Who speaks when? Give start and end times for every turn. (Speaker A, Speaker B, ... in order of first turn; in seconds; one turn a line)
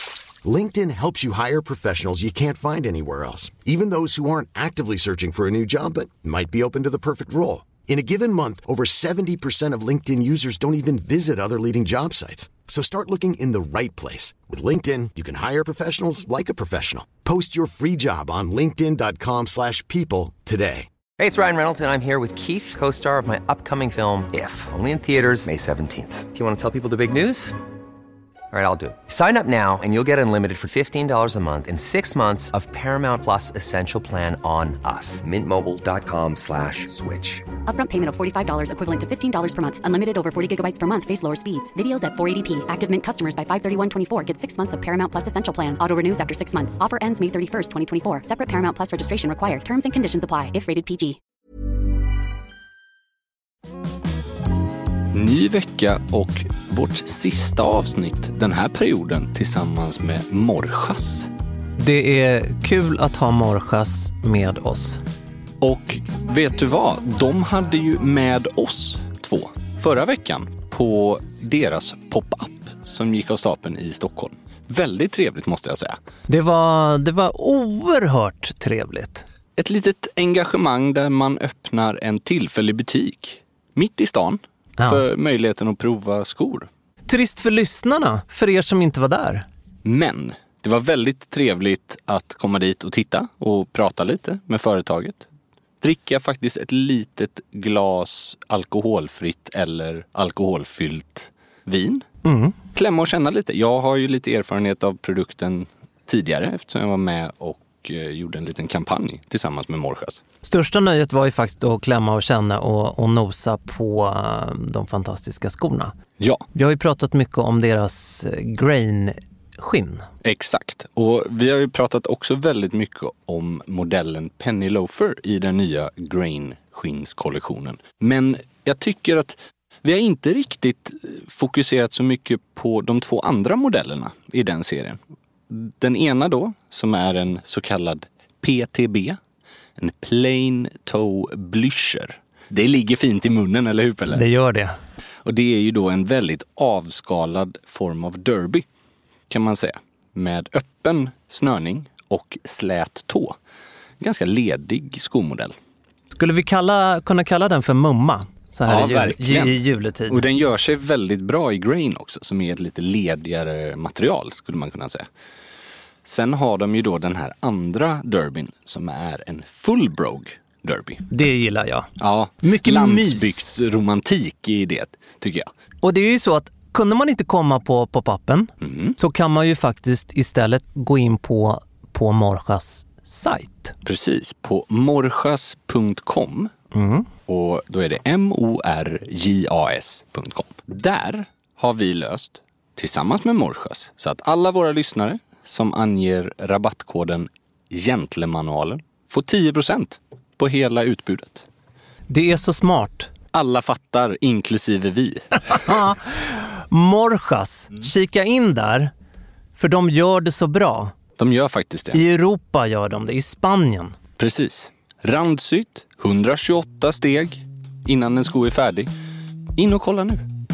Speaker A: 0.4-20.9
Speaker B: 21.2-27.6
Speaker B: 28.5-37.5
Speaker C: 37.6-51.2
Speaker D: 55.1-61.3
Speaker E: 61.8-65.0
Speaker D: 65.6-76.0
Speaker E: 76.3-79.2
Speaker D: 79.6-86.7
Speaker E: 87.1-89.5
Speaker D: 89.8-95.2
Speaker D: 95.8-102.1
Speaker E: 102.2-102.5
Speaker D: 102.8-110.2
Speaker E: 110.4-115.9
Speaker D: 116.2-116.5
Speaker E: 116.5-120.1
Speaker D: 120.2-135.0
Speaker D: 135.5-139.2
Speaker D: 139.8-144.2
Speaker E: 144.1-144.8
Speaker D: 145.2-148.7
Speaker D: 149.3-153.4
Speaker D: 154.0-155.5
Speaker E: 156.1-160.2
Speaker D: 158.7-165.1
Speaker D: 166.1-171.1
Speaker E: 171.1-171.9
Speaker D: 172.0-175.5
Speaker E: 172.4-173.5
Speaker E: 175.8-183.8
Speaker D: 178.6-179.0
Speaker D: 183.8-186.5
Speaker E: 186.7-187.1
Speaker D: 187.3-201.5
Speaker E: 202.1-203.1
Speaker D: 203.3-205.6
Speaker E: 205.6-208.9
Speaker E: 209.6-210.9
Speaker D: 211.2-212.0
Speaker E: 211.9-214.0
Speaker D: 214.2-218.9
Speaker D: 219.6-220.2